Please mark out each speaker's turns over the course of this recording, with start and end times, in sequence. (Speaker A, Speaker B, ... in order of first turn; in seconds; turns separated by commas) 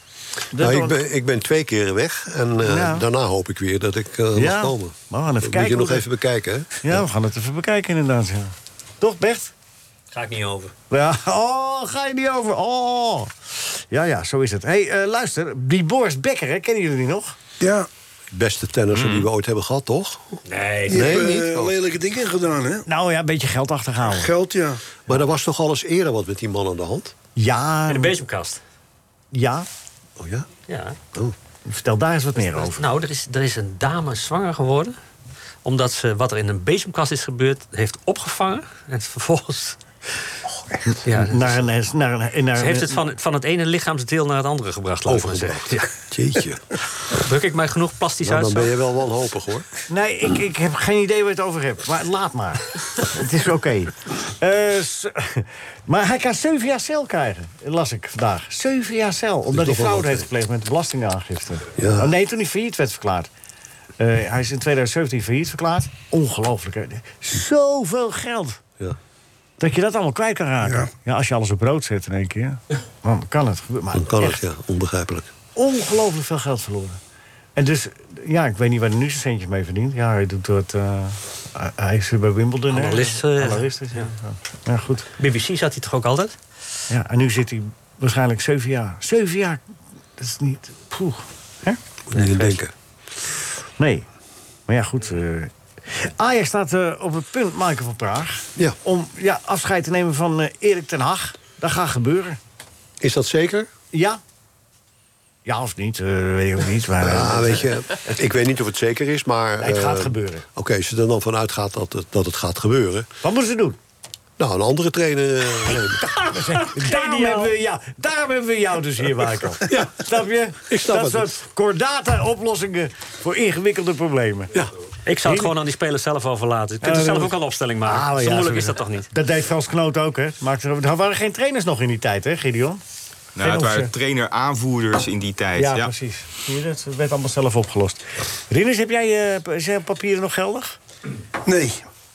Speaker A: 0.5-1.0, Speaker B: 0.6-7.0, Speaker A: 2.6-3.1, Speaker A: 4.3-6.1, Speaker A: 6.8-9.5, Speaker C: 10.1-10.7, Speaker A: 10.9-17.4, Speaker D: 17.6-17.9, Speaker B: 18.3-21.8, Speaker E: 18.9-19.3, Speaker C: 20.5-21.3, Speaker D: 20.9-22.9, Speaker A: 22.9-24.3, Speaker D: 24.2-24.8, Speaker B: 25.1-27.1, Speaker A: 27.4-28.2, Speaker C: 27.9-28.6, Speaker A: 29.3-29.7, Speaker B: 30.2-30.5, Speaker C: 30.7-31.0, Speaker A: 31.7-32.8, Speaker C: 32.6-35.0, Speaker C: 35.6-39.8, Speaker C: 41.0-41.5, Speaker A: 41.1-43.0, Speaker C: 42.5-45.9, Speaker B: 45.1-46.6, Speaker C: 47.1-48.8, Speaker B: 48.2-49.7, Speaker A: 49.9-63.3, Speaker B: 59.5-60.2, Speaker B: 61.8-62.1, Speaker A: 64.0-68.6, Speaker A: 69.6-74.4, Speaker B: 73.9-75.3, Speaker A: 75.5-77.0, Speaker A: 77.5-85.1, Speaker C: 82.7-84.1, Speaker C: 85.2-86.3, Speaker A: 86.9-89.6, Speaker A: 90.2-91.8, Speaker B: 92.1-92.7, Speaker C: 92.1-92.6, Speaker A: 93.8-94.0, Speaker A: 94.7-102.4, Speaker B: 103.0-103.7, Speaker A: 103.9-104.2, Speaker A: 105.5-108.2, Speaker B: 107.0-113.1, Speaker A: 109.6-110.5, Speaker A: 113.2-113.8, Speaker B: 114.4-116.0, Speaker A: 116.0-124.7, Speaker C: 116.8-117.5, Speaker B: 119.7-120.0, Speaker B: 120.7-121.3, Speaker C: 125.1-129.1, Speaker A: 125.2-125.5, Speaker A: 126.8-132.8, Speaker E: 133.4-135.9, Speaker A: 133.4-133.9, Speaker A: 135.6-140.8, Speaker D: 141.5-141.8